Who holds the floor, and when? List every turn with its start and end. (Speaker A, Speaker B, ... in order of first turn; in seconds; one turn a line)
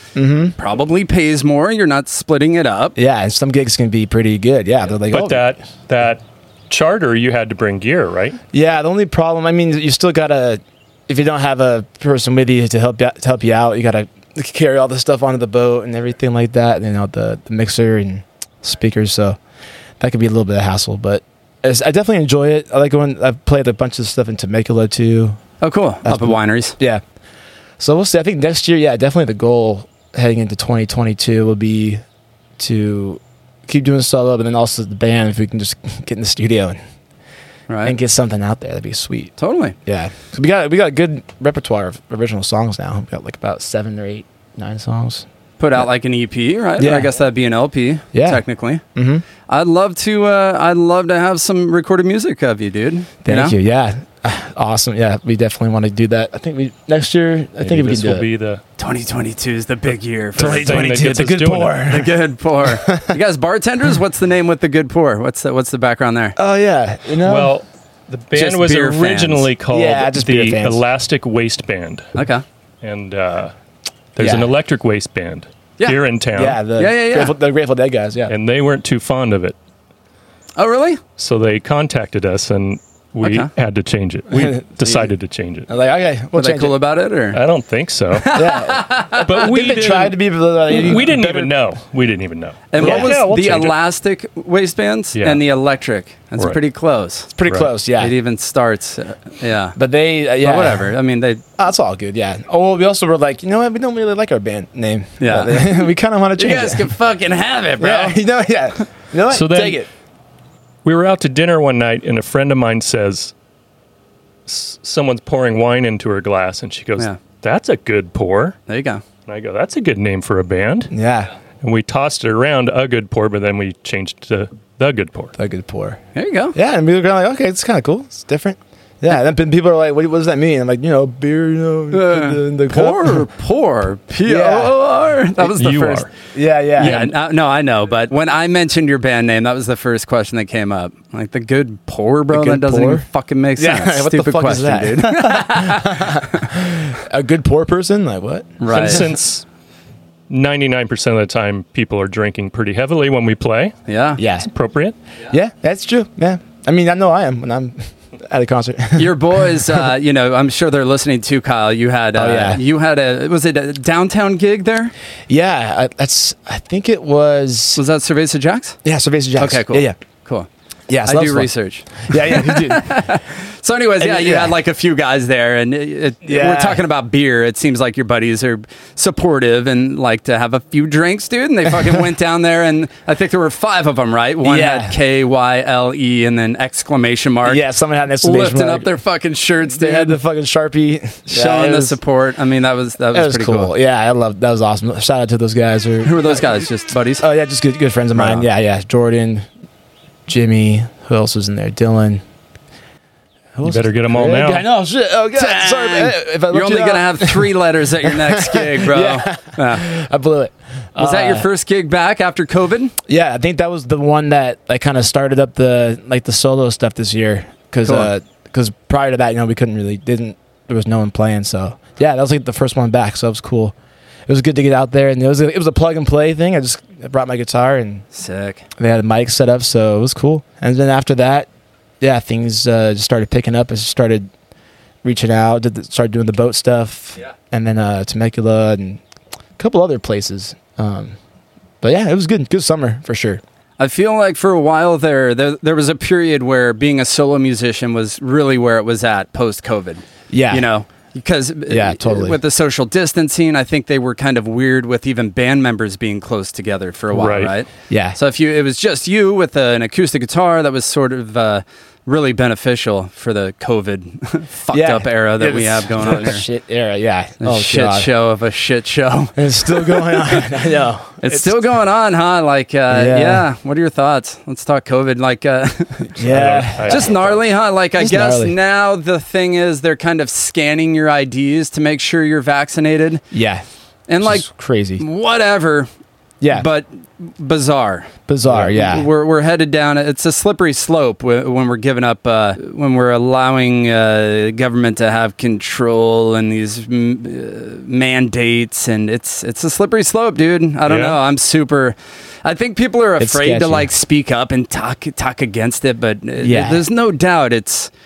Speaker A: 0.1-0.5
Speaker B: 0.5-3.0
Speaker A: 3.0-5.5
Speaker C: 5.1-8.4
Speaker A: 8.5-19.4
Speaker A: 20.0-25.4
Speaker B: 25.6-26.8
Speaker A: 26.0-27.0
Speaker A: 27.8-32.0
Speaker A: 32.6-36.8
Speaker B: 37.7-38.0
Speaker A: 37.8-39.3
Speaker B: 39.4-39.8
Speaker A: 39.9-45.2
Speaker B: 45.6-48.8
Speaker A: 46.8-47.1
Speaker A: 48.1-48.4
Speaker A: 48.9-49.2
Speaker B: 49.5-53.5
Speaker A: 53.2-58.2
Speaker C: 57.6-58.6
Speaker B: 58.8-61.1
Speaker C: 60.4-61.9
Speaker A: 60.4-63.1
Speaker B: 61.9-66.3
Speaker A: 66.3-67.5
Speaker C: 67.2-72.1
Speaker B: 68.3-69.5
Speaker A: 69.7-70.8
Speaker B: 72.1-72.4
Speaker C: 72.8-73.5
Speaker C: 74.2-76.6
Speaker A: 74.2-74.5
Speaker A: 76.3-78.3
Speaker B: 76.8-77.3
Speaker C: 78.3-79.5
Speaker B: 80.6-81.0
Speaker C: 81.2-85.7
Speaker B: 83.2-83.5
Speaker A: 84.3-85.1
Speaker A: 85.7-86.7
Speaker B: 86.3-87.4
Speaker C: 87.3-88.4
Speaker B: 88.1-89.3
Speaker A: 88.3-91.6
Speaker C: 89.2-93.8
Speaker B: 92.7-97.3
Speaker A: 92.8-93.1
Speaker C: 95.1-95.4
Speaker A: 97.3-98.1
Speaker B: 98.0-99.8
Speaker A: 99.8-100.9
Speaker B: 100.4-101.4
Speaker A: 101.6-106.9
Speaker B: 105.2-108.2
Speaker A: 107.8-109.9
Speaker C: 109.3-109.8
Speaker C: 110.8-113.3
Speaker C: 114.5-118.6
Speaker B: 118.7-119.0
Speaker C: 119.2-120.9
Speaker A: 120.9-121.3
Speaker C: 121.6-125.3
Speaker A: 125.4-126.0
Speaker B: 126.1-126.5
Speaker A: 126.5-133.3
Speaker B: 131.9-136.1
Speaker A: 134.2-134.7
Speaker C: 135.5-136.1
Speaker A: 136.3-137.1
Speaker B: 136.8-146.4
Speaker A: 142.3-143.0
Speaker A: 143.6-149.0
Speaker B: 148.6-149.0
Speaker C: 148.7-149.4
Speaker C: 150.3-153.8
Speaker B: 153.9-154.2
Speaker A: 154.2-154.5
Speaker C: 154.4-154.9
Speaker A: 155.3-159.8
Speaker B: 158.9-164.9
Speaker A: 162.1-162.6
Speaker A: 165.3-167.8
Speaker B: 167.8-168.8
Speaker A: 168.8-169.9
Speaker B: 169.4-170.5
Speaker A: 170.9-173.1
Speaker B: 171.1-187.6
Speaker A: 174.0-174.6
Speaker A: 176.2-176.8
Speaker A: 184.4-185.0
Speaker A: 187.4-188.9
Speaker B: 188.2-190.2
Speaker A: 189.7-192.0
Speaker B: 191.3-193.7
Speaker A: 193.1-196.7
Speaker B: 196.0-197.3
Speaker A: 197.2-199.4
Speaker B: 198.2-198.4
Speaker A: 200.3-202.2
Speaker A: 203.5-211.5
Speaker C: 203.6-204.7
Speaker B: 205.3-209.8
Speaker B: 211.0-212.9
Speaker A: 213.1-223.7
Speaker B: 217.8-218.1
Speaker A: 224.3-228.1
Speaker B: 228.1-228.7
Speaker A: 228.8-231.5
Speaker A: 232.0-234.3
Speaker A: 235.0-239.0
Speaker A: 239.6-241.2
Speaker A: 241.8-243.4
Speaker B: 243.8-266.4
Speaker A: 250.3-250.7
Speaker A: 251.7-252.4
Speaker C: 257.1-257.5
Speaker A: 257.9-258.2
Speaker A: 264.7-268.1
Speaker B: 267.4-270.4
Speaker A: 269.3-271.6
Speaker B: 271.2-276.2
Speaker A: 272.9-273.4
Speaker C: 276.2-277.4
Speaker A: 276.2-277.2
Speaker B: 276.8-283.2
Speaker A: 278.0-278.5
Speaker A: 283.3-283.6
Speaker B: 284.1-284.5
Speaker A: 284.2-285.0
Speaker B: 285.0-285.9
Speaker A: 286.4-286.6
Speaker B: 286.5-307.9
Speaker A: 288.3-289.1
Speaker C: 300.9-301.2
Speaker A: 303.2-303.9
Speaker A: 306.4-306.9